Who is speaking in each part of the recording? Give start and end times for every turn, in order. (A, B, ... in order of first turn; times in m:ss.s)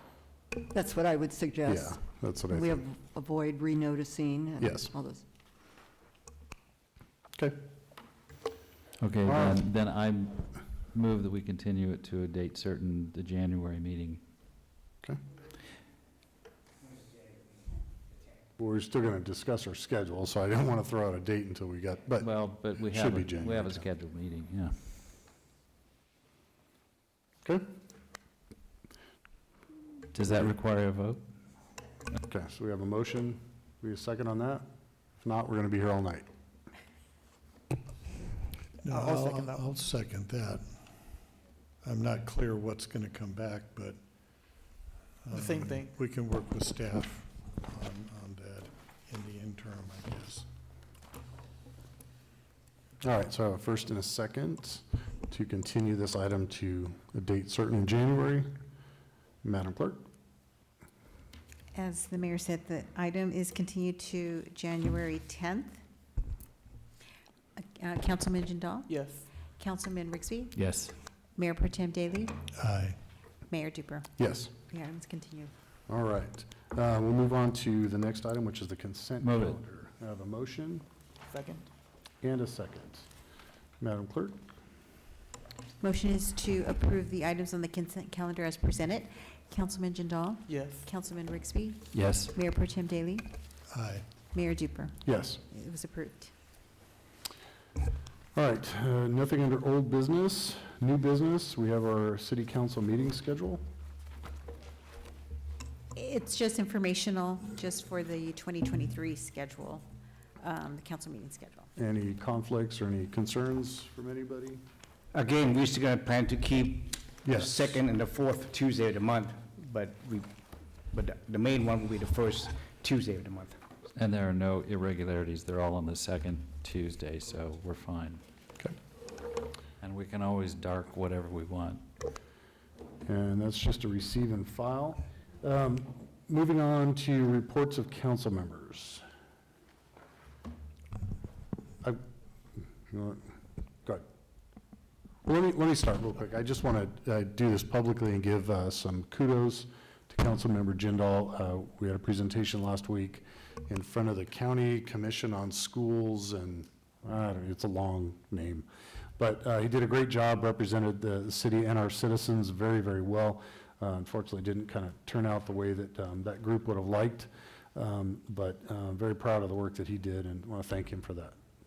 0:00.7-0:05.2 A
0:01.6-0:02.8 B
0:04.6-0:04.9 B
0:09.0-0:14.2 C
0:09.3-0:09.6 B
0:18.6-0:22.3 B
0:22.2-0:24.8 C
0:22.9-0:23.9 B
0:30.1-0:31.2 C
0:32.2-0:34.7 B
0:35.2-0:36.3 B
0:38.8-0:41.2 D
0:38.9-0:39.7 E
0:41.8-0:44.0 D
0:45.2-0:50.5 D
0:45.3-0:46.0 E
0:53.0-0:58.5 B
0:59.4-1:00.1 B
1:01.7-1:05.8 F
1:07.6-1:10.6 F
1:08.9-1:09.3 E
1:10.6-1:11.0 C
1:11.4-1:12.4 F
1:12.5-1:13.0 D
1:13.5-1:14.1 F
1:14.2-1:14.5 B
1:14.7-1:15.5 F
1:15.9-1:20.8 B
1:19.2-1:19.6 C
1:21.3-1:21.7 E
1:22.2-1:23.1 B
1:23.8-1:24.4 B
1:25.8-1:33.3 F
1:30.5-1:30.9 E
1:31.9-1:32.3 C
1:33.7-1:34.1 D
1:34.3-1:36.3 F
1:35.0-1:35.4 B
1:38.4-1:43.6 B
1:46.0-1:49.8 F
1:50.4-1:51.7 F
1:51.8-1:54.6 B
1:55.1-2:03.6 G
1:57.2-1:57.8 B
2:04.0-2:08.2 C
2:09.8-2:11.8 C
2:13.1-2:19.0 B
2:22.9-2:23.3 B
2:25.2-2:38.7 B
2:39.2-2:51.4 B